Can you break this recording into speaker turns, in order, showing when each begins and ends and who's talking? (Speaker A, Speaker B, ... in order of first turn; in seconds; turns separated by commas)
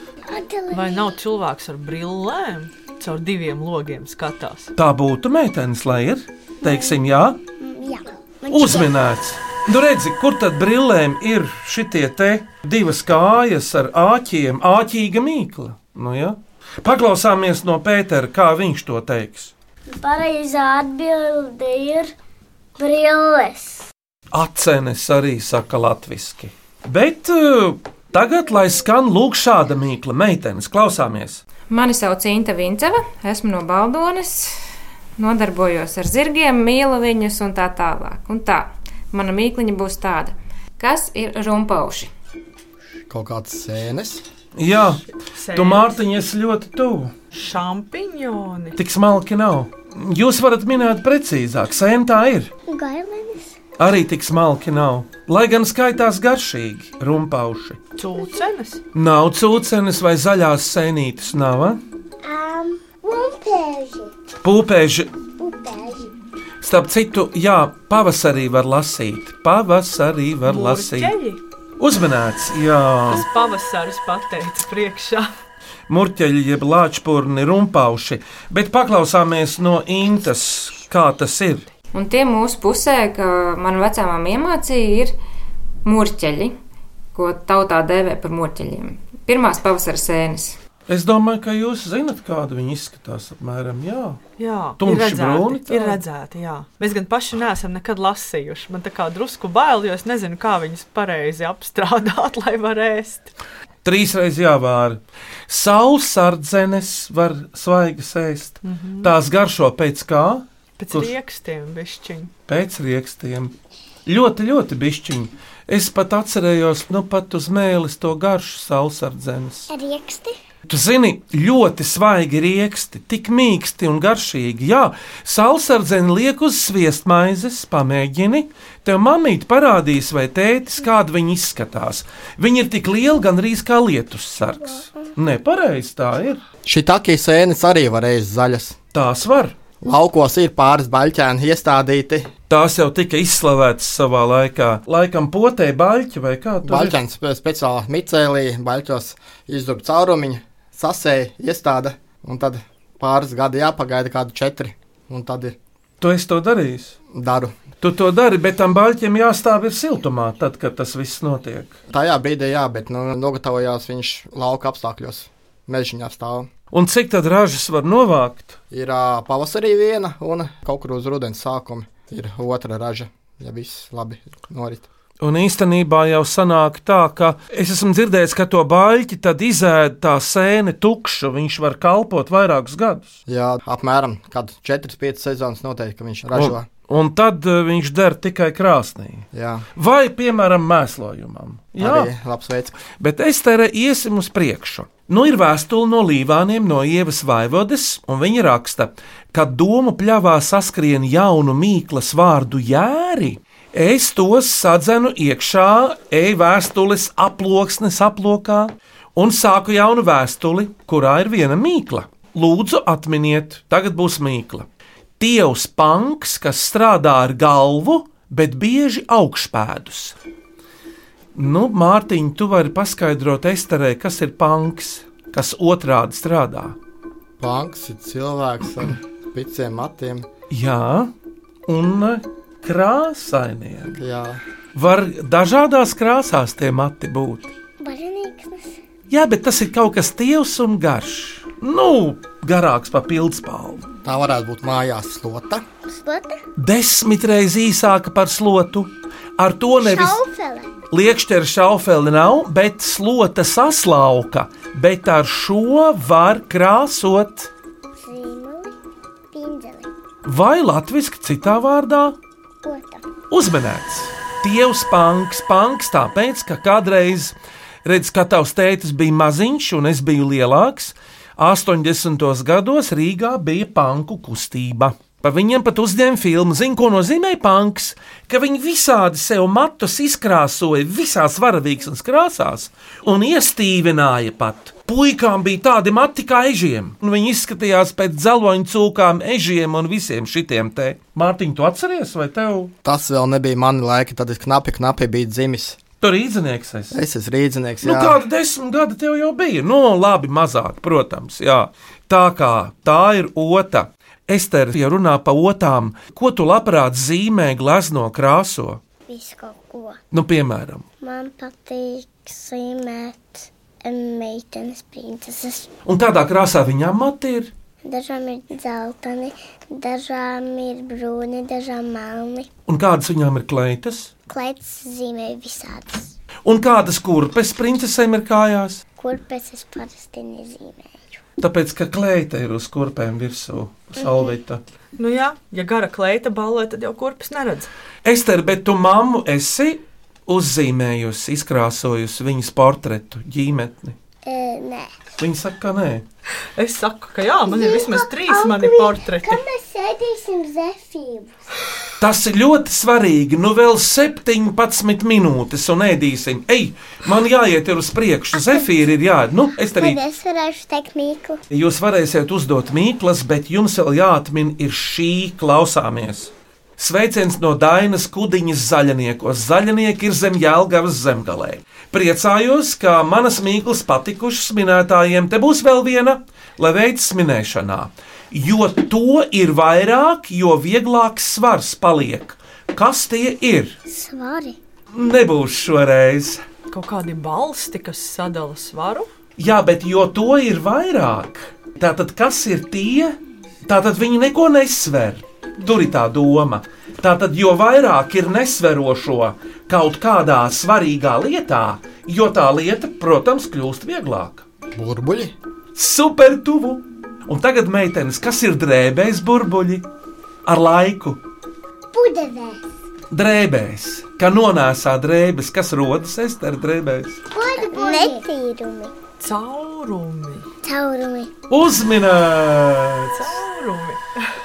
Speaker A: 0.2-1.2, Speaker B: 0.7-4.7, Speaker C: 4.8-7.4, Speaker A: 6.6-6.9, Speaker A: 7.6-8.9, Speaker C: 8.5-19.5, Speaker D: 19.9-22.1, Speaker D: 22.8-23.9, Speaker C: 24.3-31.4, Speaker E: 31.7-34.5, Speaker E: 35.2-42.1, Speaker F: 43.1-44.2, Speaker C: 44.5-47.1, Speaker B: 45.1-46.0, Speaker B: 47.3-48.8, Speaker C: 48.8-52.5, Speaker A: 52.7-53.5, Speaker C: 53.8-57.8, Speaker B: 58.0-58.8, Speaker C: 58.9-61.8, Speaker A: 62.2-64.1, Speaker C: 64.4-65.1, Speaker A: 65.4-66.1, Speaker C: 66.6-71.1, Speaker B: 70.4-71.4, Speaker C: 71.8-73.2, Speaker B: 73.1-75.3, Speaker C: 75.9-81.7, Speaker E: 81.9-85.2, Speaker E: 85.8-86.5, Speaker E: 87.1-90.6, Speaker C: 90.9-94.2, Speaker B: 94.4-103.3, Speaker C: 94.8-96.0, Speaker C: 103.8-111.1, Speaker B: 108.6-109.1, Speaker B: 110.8-112.3, Speaker C: 112.5-113.5, Speaker C: 114.0-119.7, Speaker A: 119.7-120.3, Speaker C: 120.7-136.4, Speaker F: 136.6-138.8, Speaker C: 138.9-139.6, Speaker F: 139.8-142.3, Speaker C: 142.5-146.9, Speaker F: 146.6-155.6, Speaker C: 156.0-156.9, Speaker F: 157.1-157.5, Speaker C: 157.8-161.8, Speaker F: 161.9-166.5, Speaker C: 166.7-168.6, Speaker F: 168.7-174.9, Speaker C: 175.2-183.2, Speaker F: 183.3-186.7, Speaker C: 186.3-192.1, Speaker F: 189.3-189.7, Speaker F: 191.8-192.7, Speaker C: 192.9-214.7, Speaker C: 215.2-220.1, Speaker C: 221.3-226.8, Speaker F: 227.4-230.3, Speaker C: 230.5-231.1, Speaker C: 231.7-234.0, Speaker F: 233.9-234.4, Speaker C: 234.7-237.5, Speaker A: 237.8-238.8, Speaker C: 239.1-243.8, Speaker F: 244.0-245.6, Speaker A: 245.9-246.4, Speaker C: 246.6-250.2, Speaker A: 249.8-250.7, Speaker C: 250.9-257.5, Speaker A: 258.0-258.7, Speaker A: 259.3-259.9, Speaker C: 260.2-262.1, Speaker A: 262.6-263.1, Speaker C: 263.3-292.7, Speaker F: 292.8-295.8, Speaker C: 296.0-297.0, Speaker F: 296.9-298.2, Speaker C: 297.8-308.8, Speaker A: 309.1-310.0, Speaker C: 310.1-310.9, Speaker A: 311.0-315.7, Speaker C: 315.9-317.5, Speaker A: 317.8-322.5, Speaker C: 322.7-324.1, Speaker A: 324.3-326.1, Speaker C: 326.4-328.8, Speaker A: 329.0-331.2, Speaker C: 331.4-334.6, Speaker B: 335.0-337.7, Speaker C: 338.0-343.9, Speaker A: 344.2-344.9, Speaker C: 345.2-346.0, Speaker B: 346.6-349.4, Speaker A: 347.4-351.4, Speaker C: 352.0-360.0, Speaker A: 358.4-358.6, Speaker A: 359.8-361.4, Speaker C: 361.5-383.8, Speaker A: 383.9-384.6, Speaker C: 384.9-386.4, Speaker B: 386.7-389.1, Speaker C: 389.4-404.4, Speaker F: 404.7-405.3, Speaker C: 405.7-409.8, Speaker C: 410.4-411.2, Speaker A: 411.9-412.6, Speaker C: 413.1-417.2, Speaker A: 417.3-418.9, Speaker B: 419.2-420.5, Speaker A: 420.6-421.3, Speaker C: 421.5-423.1, Speaker B: 423.1-424.0